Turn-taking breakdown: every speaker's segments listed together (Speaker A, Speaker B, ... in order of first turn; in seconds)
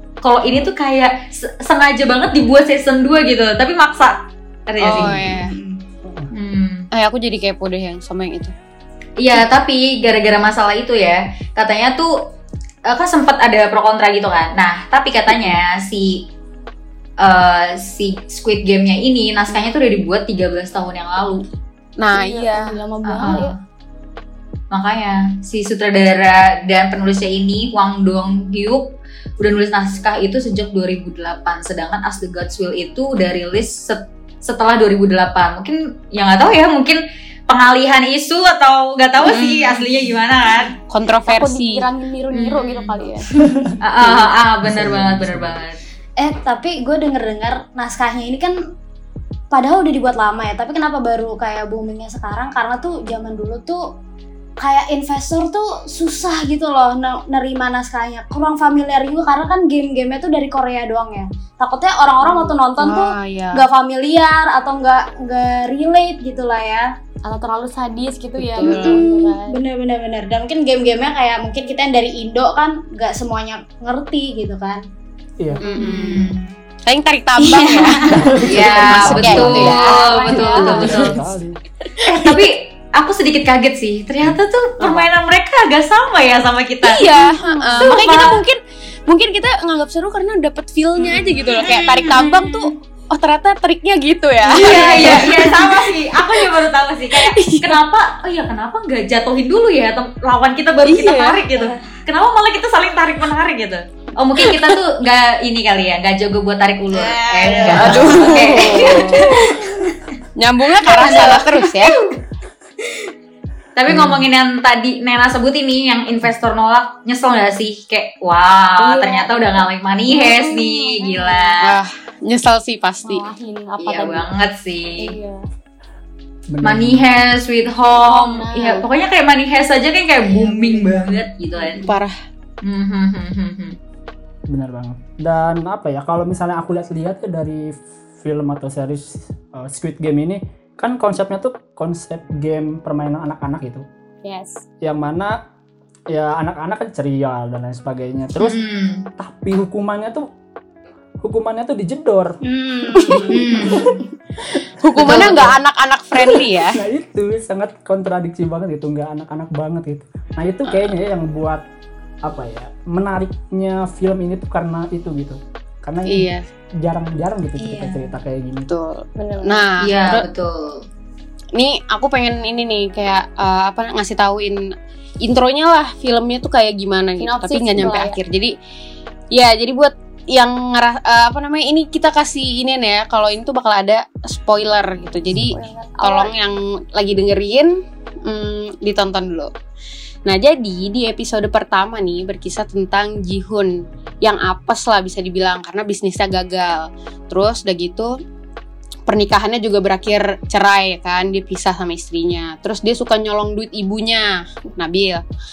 Speaker A: 0.2-5.3, 6.3-6.9, 9.2-12.1, 12.9-16.3, 17.2-21.5, 23.1-23.6, 24.7-40.8, 42.3-42.9, 43.8-45.8, 75.8-76.5, 78.4-81.2, 82.0-87.0, 87.8-88.5, 91.5-92.7, 94.4-109.6, 113.8-121.8, 123.8-125.1, 126.6-131.9, 132.6-133.8, 148.4-149.1, 153.3-153.9, 169.8-170.8
Speaker B: 4.8-5.5, 6.9-8.5, 22.0-22.8, 39.2-39.9, 40.9-41.9, 62.2-63.7, 68.6-69.0, 75.6-76.3, 76.9-81.0, 82.0-82.5, 84.8-85.1, 86.8-96.6, 97.1-97.8, 100.8-101.5, 104.5-104.7, 107.6-109.5, 110.4-112.0, 121.6-123.2, 131.8-132.1, 153.0-153.3, 154.8-156.8, 166.1-166.5, 168.7-170.3, 171.6-174.6, 175.2-178.5, 179.3-189.5, 190.3-198.2, 199.1-205.2
Speaker C: 5.0-5.9, 46.2-48.6, 49.5-53.8, 54.6-66.9, 68.7-74.8, 77.4-78.5, 106.9-110.0, 110.8-112.2, 152.4-154.0, 167.6-168.1
Speaker D: 22.1-23.5, 41.3-43.3, 67.3-69.6, 79.7-81.1, 87.0-88.0, 118.8-119.4, 120.1-121.6, 123.0-124.3, 125.0-125.4, 128.0-128.9, 130.3-131.7, 144.2-144.7, 169.2-169.7, 177.2-178.2, 185.3-186.3
Speaker E: 44.6-45.6, 78.0-81.6, 107.9-108.5, 113.9-114.2, 126.5-127.0, 134.5-143.8, 144.8-145.3, 146.1-148.6, 149.2-150.3, 151.2-152.4, 153.7-154.0, 154.5-155.6, 156.2-161.6, 162.2-168.7